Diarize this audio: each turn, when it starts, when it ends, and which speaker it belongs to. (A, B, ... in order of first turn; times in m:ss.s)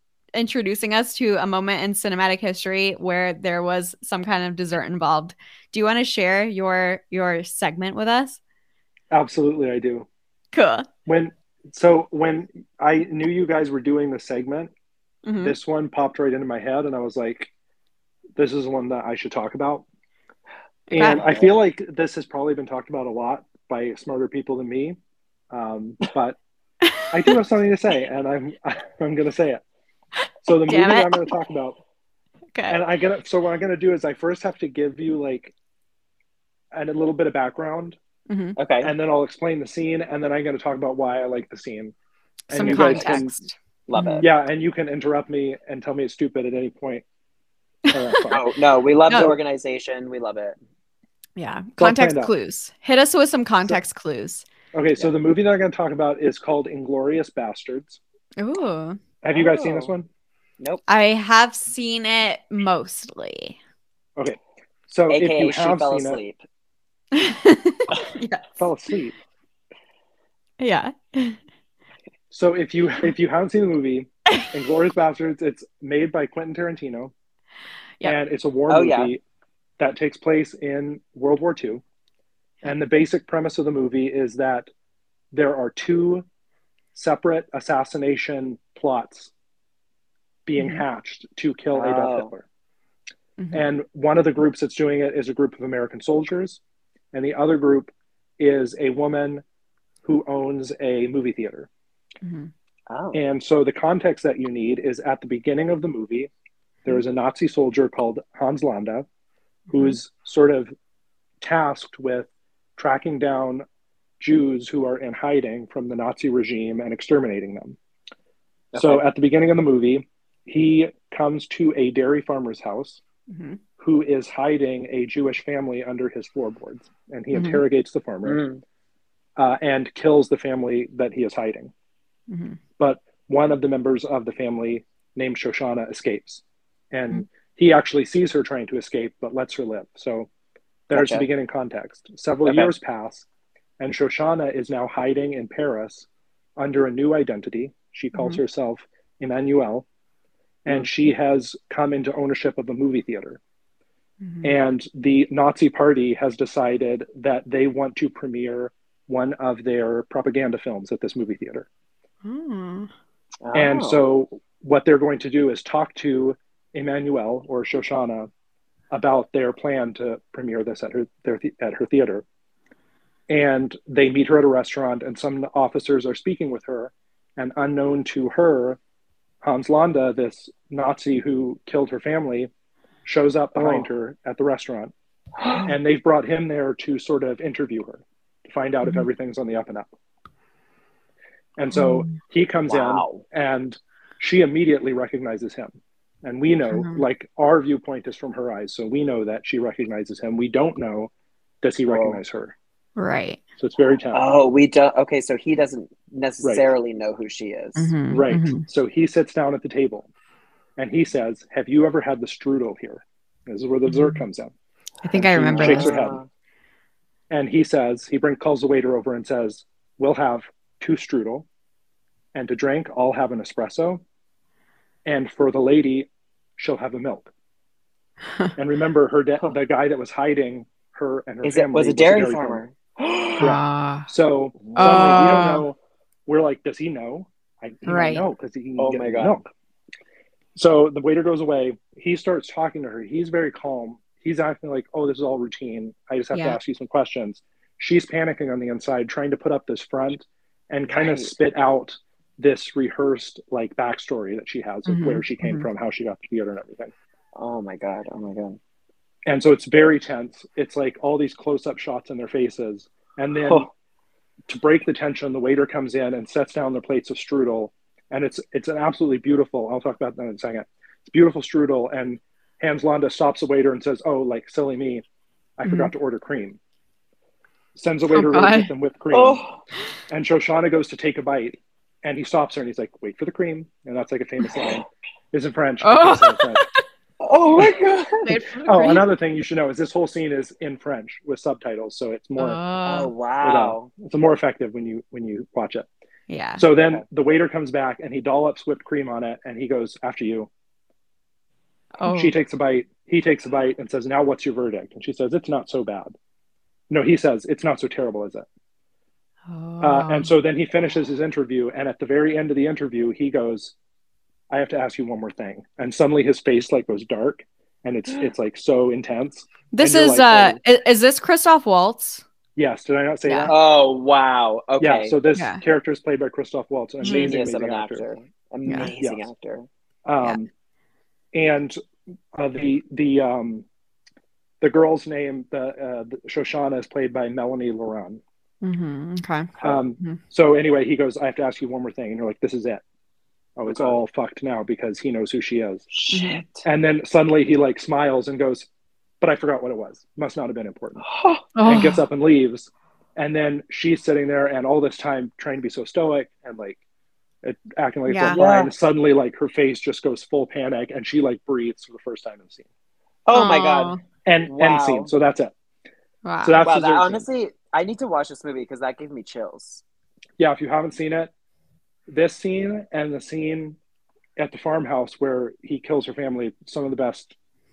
0:00.3-0:08.4 A
0:09.1-0:10.1 B
0:10.5-0:10.9 A
0:11.1-0:14.7 B
0:15.2-0:15.6 A
0:15.4-0:17.5 B
0:18.4-0:19.8 B
0:20.9-0:21.3 A
0:20.9-0:25.0 B
0:21.2-0:21.5 C
0:25.5-0:26.4 B
0:26.9-0:27.3 A
0:27.1-0:29.6 B
0:30.4-0:31.8 B
0:30.7-0:31.3 A
0:32.7-0:35.5 B
0:36.7-0:38.0 B
0:38.3-0:38.6 A
0:38.6-0:38.9 C
0:38.8-0:41.9 B
0:42.5-0:43.3 B
0:42.5-0:44.2 A
0:42.7-0:43.2 C
0:43.9-0:44.3 C
0:44.2-0:47.0 B
0:47.9-0:48.3 A
0:47.9-0:48.4 B
0:48.3-0:50.6 C
0:49.1-0:49.3 A
0:51.4-0:54.5 A
0:51.8-0:52.3 B
0:54.7-0:58.0 B
0:58.4-0:59.0 A
0:59.2-1:00.1 B
0:59.3-0:59.9 C
1:00.9-1:03.6 A
1:04.2-1:06.2 B
1:05.1-1:06.4 C
1:07.1-1:08.6 A
1:08.6-1:09.2 B
1:10.6-1:11.4 A
1:12.3-1:17.1 B
1:18.0-1:19.2 B
1:18.7-1:19.2 C
1:19.8-1:21.8 B
1:22.6-1:24.7 B
1:25.3-1:26.2 B
1:27.0-1:29.3 B
1:30.5-1:32.4 B
1:30.6-1:30.8 A
1:31.7-1:32.3 C
1:33.4-1:33.7 A
1:33.5-1:36.6 B
1:37.1-1:39.4 B
1:40.0-1:41.7 B
1:42.2-1:42.5 A
1:42.9-1:43.2 C
1:43.1-1:46.3 B
1:46.8-1:49.1 B
1:49.7-1:50.0 A
1:49.7-1:50.7 B
1:51.4-1:53.6 B
1:54.2-1:57.8 B
1:58.7-1:59.0 C
1:58.8-2:03.0 B
2:03.3-2:03.6 A
2:03.8-2:08.4 B
2:07.3-2:07.6 A
2:08.2-2:08.6 C
2:09.4-2:11.7 B
2:12.3-2:12.6 A
2:12.8-2:20.3 B
2:20.9-2:23.3 B
2:20.9-2:21.3 C
2:22.4-2:22.7 C
2:23.8-2:29.8 B
2:28.1-2:28.4 A
2:30.6-2:33.4 B
2:34.2-2:34.6 A
2:34.4-2:41.7 B
2:42.2-2:42.9 A
2:43.4-2:44.0 C
2:43.5-2:48.3 B
2:48.9-2:52.2 B
2:53.3-2:58.8 B
2:59.4-3:02.5 B
3:03.0-3:04.9 B
3:03.6-3:03.9 C
3:05.4-3:05.7 C
3:05.6-3:09.9 B
3:11.6-3:21.1 B
3:11.7-3:12.1 A
3:12.7-3:13.2 C
3:16.7-3:17.0 A
3:21.6-3:22.6 B
3:21.9-3:22.2 C
3:23.0-3:23.4 A
3:23.6-3:24.2 B
3:24.1-3:27.9 C
3:27.8-3:28.6 A
3:28.1-3:30.1 B
3:30.8-3:34.5 B
3:33.9-3:34.3 A
3:35.0-3:36.0 A
3:35.1-3:36.3 C
3:35.5-3:36.2 B
3:37.3-3:41.5 B
3:42.3-3:44.0 B
3:45.0-3:47.3 B
3:48.2-3:48.5 A
3:48.6-3:52.6 B
3:51.4-3:53.5 C
3:53.4-3:59.5 B
3:53.4-3:54.1 A
3:54.6-3:55.3 C
3:54.8-3:55.6 A
3:57.8-3:58.2 A
3:58.8-3:59.3 C
4:00.6-4:16.9 B
4:06.3-4:06.6 A
4:10.9-4:11.3 C
4:14.9-4:15.7 A
4:17.4-4:18.6 C
4:19.3-4:23.7 B
4:23.4-4:23.7 C
4:24.5-4:35.0 B
4:35.6-4:36.6 B
4:35.6-4:35.9 A
4:37.8-4:39.4 B
4:38.1-4:38.7 A
4:39.1-4:39.6 C
4:40.1-4:46.6 B
4:45.8-4:46.7 A
4:47.2-4:48.3 C
4:48.2-4:49.1 A
4:48.6-4:52.6 B
4:52.4-4:53.1 A
4:52.8-4:53.9 C
4:53.4-4:55.9 B
4:56.3-4:56.6 A
4:56.6-5:00.5 B
4:56.8-4:57.0 C
5:02.0-5:02.4 A
5:02.0-5:06.1 B
5:06.9-5:08.5 B
5:09.5-5:10.3 A
5:09.8-5:13.8 B
5:14.5-5:20.6 B
5:19.7-5:22.2 A
5:22.6-5:23.5 B
5:23.3-5:23.5 A
5:23.5-5:25.1 C
5:24.8-5:28.1 B
5:25.4-5:25.6 A
5:27.0-5:29.7 C
5:27.0-5:27.4 A
5:28.7-5:28.9 A
5:29.0-5:29.3 B
5:30.1-5:30.5 B
5:31.3-5:31.8 B
5:32.3-5:33.6 B
5:34.6-5:38.2 B
5:38.6-5:40.2 A
5:39.6-5:42.8 B
5:43.6-5:45.8 B
5:43.7-5:44.0 C
5:45.9-5:46.6 C
5:46.1-5:46.4 A
5:46.6-5:48.7 B
5:49.2-5:51.1 B
5:51.0-5:51.4 C
5:51.6-5:52.0 A
5:51.6-5:56.8 B
5:57.4-6:02.6 B
5:58.1-5:58.4 A
5:58.3-5:58.7 C
6:03.3-6:04.0 C
6:03.3-6:04.0 A
6:04.3-6:05.5 B
6:04.5-6:05.1 C
6:06.2-6:06.6 A
6:06.4-6:07.2 B
6:06.6-6:09.8 C
6:10.4-6:11.3 B
6:12.1-6:13.8 B
6:14.4-6:17.4 B